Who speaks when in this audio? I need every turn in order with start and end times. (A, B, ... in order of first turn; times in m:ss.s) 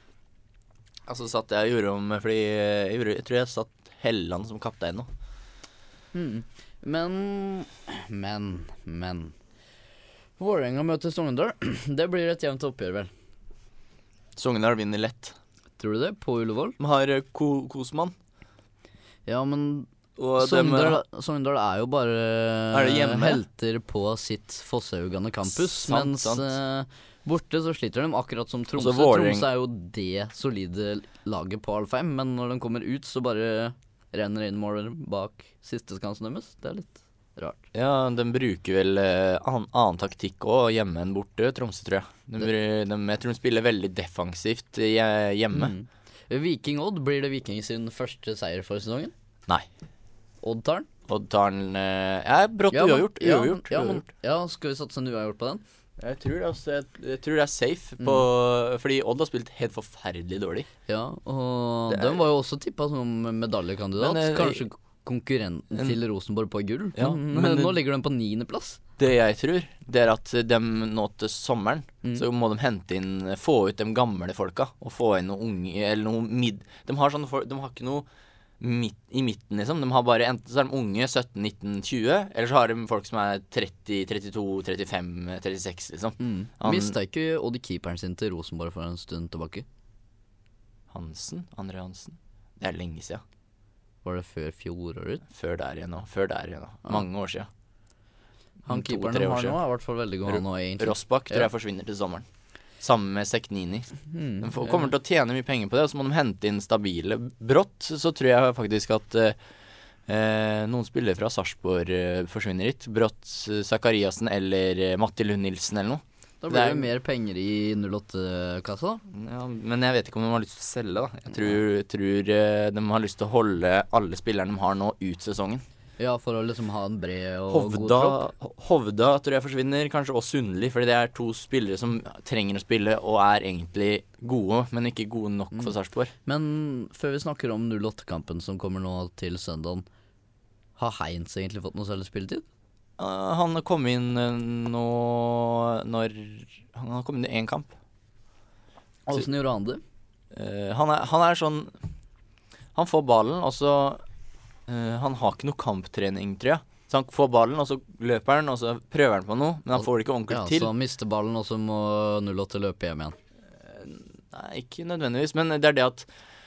0:01.1-0:05.1 A
0:06.1-0:09.3 B
0:10.4-0:13.1 B
0:14.4-0:15.4 A
0:15.8-0:16.8 B
0:16.8-0:18.1 A
0:19.3-0:37.6 B
0:20.2-0:21.0 A
0:22.7-0:23.4 A
0:25.5-0:26.5 A
0:28.8-0:29.5 A
0:37.7-0:45.7 A
0:45.5-0:49.1 B
0:50.4-0:50.9 B
0:51.1-0:54.0 A
0:52.7-0:55.6 B
0:56.0-1:00.7 A
0:58.0-0:58.2 B
1:00.9-1:08.8 B
1:01.9-1:02.2 A
1:04.0-1:04.6 A
1:07.0-1:07.8 A
1:09.0-1:18.1 A
1:18.6-1:26.9 A
1:26.2-1:29.7 B
1:30.9-1:33.2 A
1:34.0-1:35.2 B
1:35.3-1:37.5 A
1:38.7-1:39.6 A
1:38.7-1:41.5 B
1:40.3-1:42.2 A
1:42.8-1:49.4 A
1:44.1-1:44.9 B
1:50.1-1:56.9 A
1:56.4-1:59.0 B
1:59.1-2:05.6 A
2:06.0-2:08.2 B
2:07.5-2:16.1 A
2:15.6-2:19.8 B
2:20.8-2:22.4 B
2:23.0-2:27.7 A
2:29.1-2:29.8 B
2:30.3-2:31.8 A
2:32.8-2:34.0 A
2:34.7-2:40.7 A
2:40.3-2:43.2 B
2:43.6-2:46.1 A